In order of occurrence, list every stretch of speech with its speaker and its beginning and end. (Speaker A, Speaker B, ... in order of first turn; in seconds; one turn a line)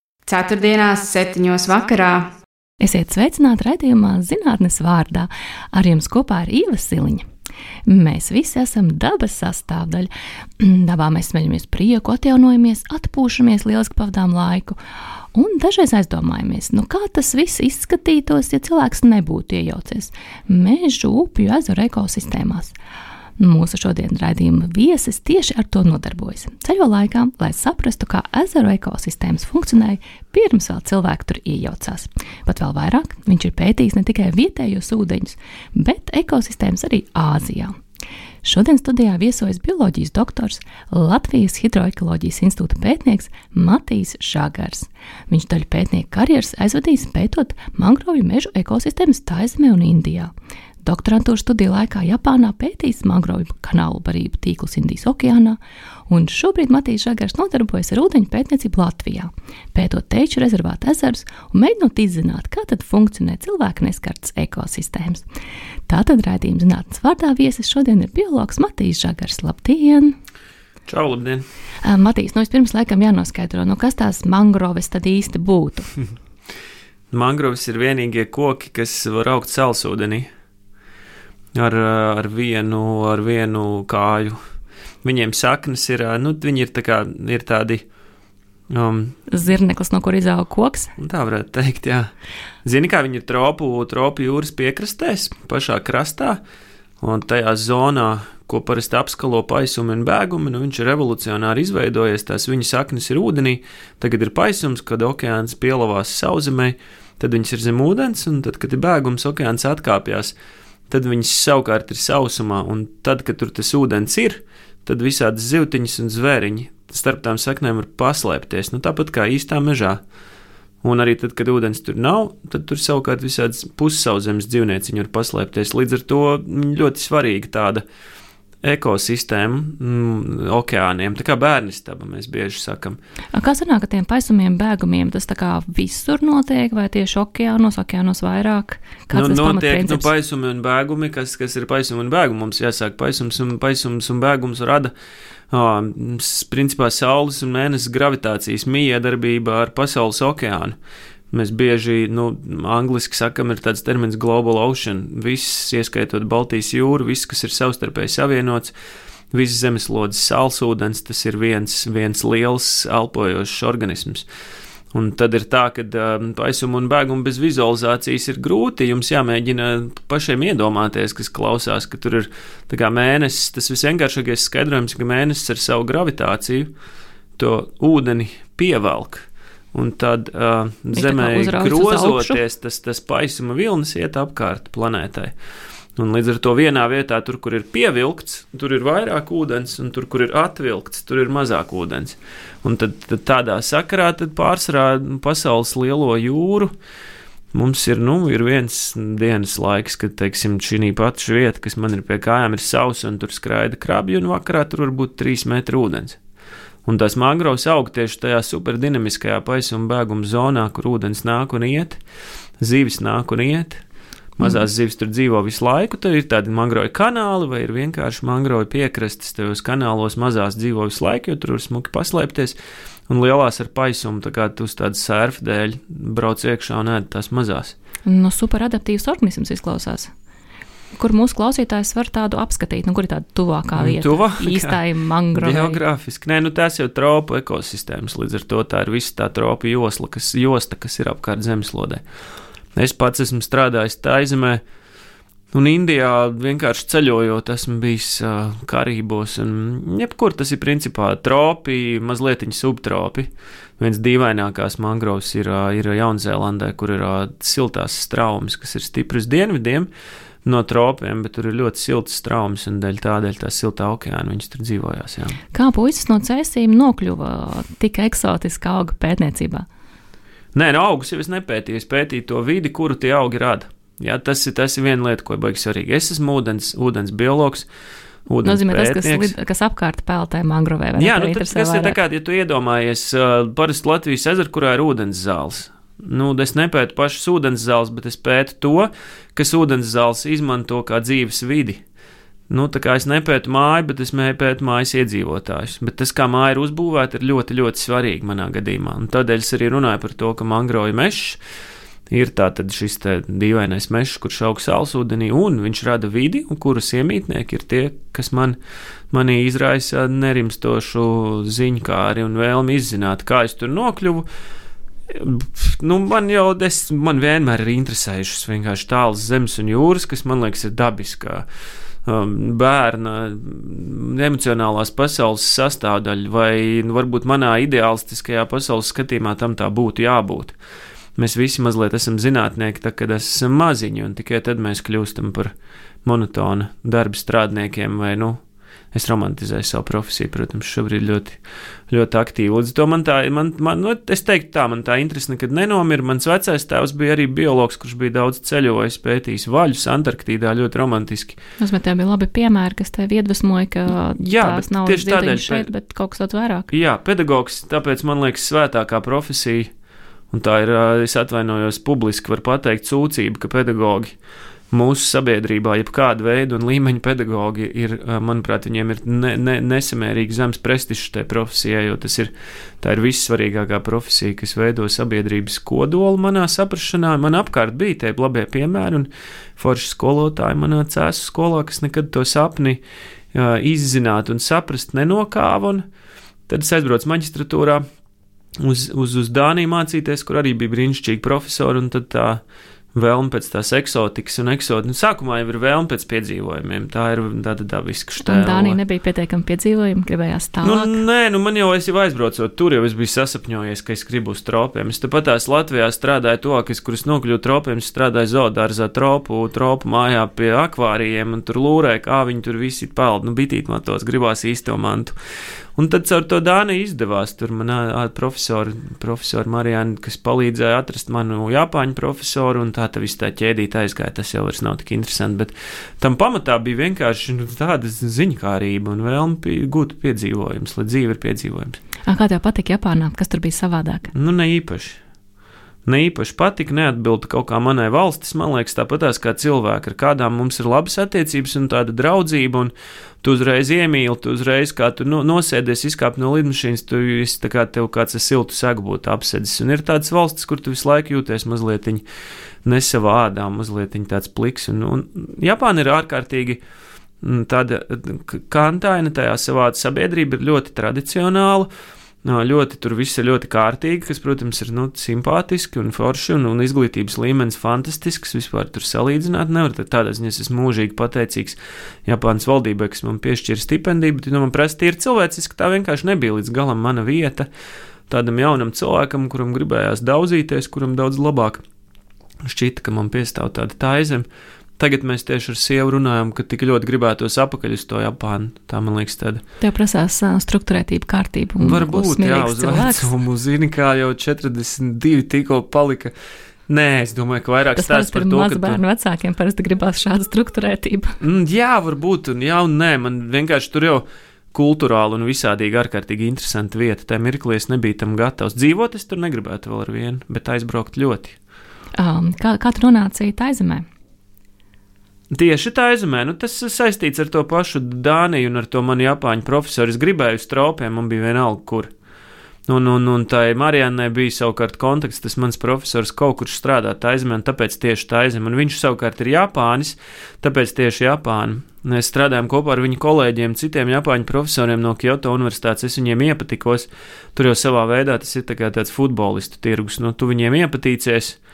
Speaker A: 0.3-2.3
Speaker B: 2.8-7.2
Speaker B: 7.9-14.8
Speaker B: 15.3-22.7
Speaker B: 23.4-37.8
Speaker B: 38.4-50.3
Speaker B: 50.8-65.2
Speaker B: 65.9-70.2
Speaker C: 70.9-71.4
Speaker B: 71.8-75.9
Speaker C: 77.1-80.3
Speaker C: 81.5-84.4
Speaker C: 85.0-87.8
Speaker C: 88.7-89.2
Speaker B: 89.3-90.9
Speaker C: 91.0-92.1
Speaker C: 92.6-96.4
Speaker C: 97.0-110.3
Speaker C: 110.9-120.0
Speaker C: 120.8-127.8
Speaker C: 128.6-133.0
Speaker B: 133.3-140.1
Speaker C: 139.1-144.9
Speaker C: 145.5-150.8
Speaker C: 151.3-158.7
Speaker C: 159.3-164.2
Speaker C: 164.9-176.7
Speaker C: 177.4-185.3
Speaker B: 180.9-182.4
Speaker C: 185.9-196.7
Speaker C: 197.5-206.2
Speaker C: 206.8-212.0
Speaker C: 212.6-213.8
Speaker C: 214.4-222.6
Speaker C: 223.1-227.7
Speaker B: 228.1-230.1
Speaker B: 230.9-235.8
Speaker C: 233.8-234.8
Speaker C: 235.3-242.0
Speaker C: 242.8-244.6
Speaker C: 245.5-259.9
Speaker C: 260.4-265.4
Speaker B: 265.5-269.7
Speaker C: 270.6-277.7
Speaker C: 278.3-279.3
Speaker B: 278.4-282.0
Speaker C: 281.0-291.8
Speaker C: 292.5-301.4
Speaker C: 302.1-308.6
Speaker C: 309.1-314.2
Speaker C: 315.1-321.5
Speaker C: 322.1-330.5
Speaker C: 331.2-335.5
Speaker C: 336.1-338.4
Speaker C: 338.9-341.4
Speaker C: 341.9-351.4
Speaker B: 351.6-356.7
Speaker C: 354.2-355.7
Speaker C: 356.7-359.7
Speaker C: 360.3-364.1
Speaker C: 364.7-382.8
Speaker C: 383.3-385.8
Speaker C: 386.5-387.9
Speaker C: 388.6-392.4
Speaker C: 392.9-398.8
Speaker B: 398.2-401.0
Speaker C: 400.6-415.2
Speaker C: 415.8-431.8
Speaker B: 432.1-434.1
Speaker C: 434.1-435.0
Speaker C: 435.9-442.7
Speaker C: 443.2-452.0
Speaker C: 452.6-456.6
Speaker C: 457.2-461.7
Speaker C: 462.2-477.5
Speaker C: 478.1-481.6
Speaker C: 482.4-484.2
Speaker C: 484.8-489.4
Speaker B: 489.6-493.1
Speaker C: 491.6-496.1
Speaker C: 496.7-498.8
Speaker B: 497.8-501.2
Speaker C: 501.2-511.4
Speaker B: 511.9-513.9
Speaker C: 515.3-521.9
Speaker C: 522.7-541.4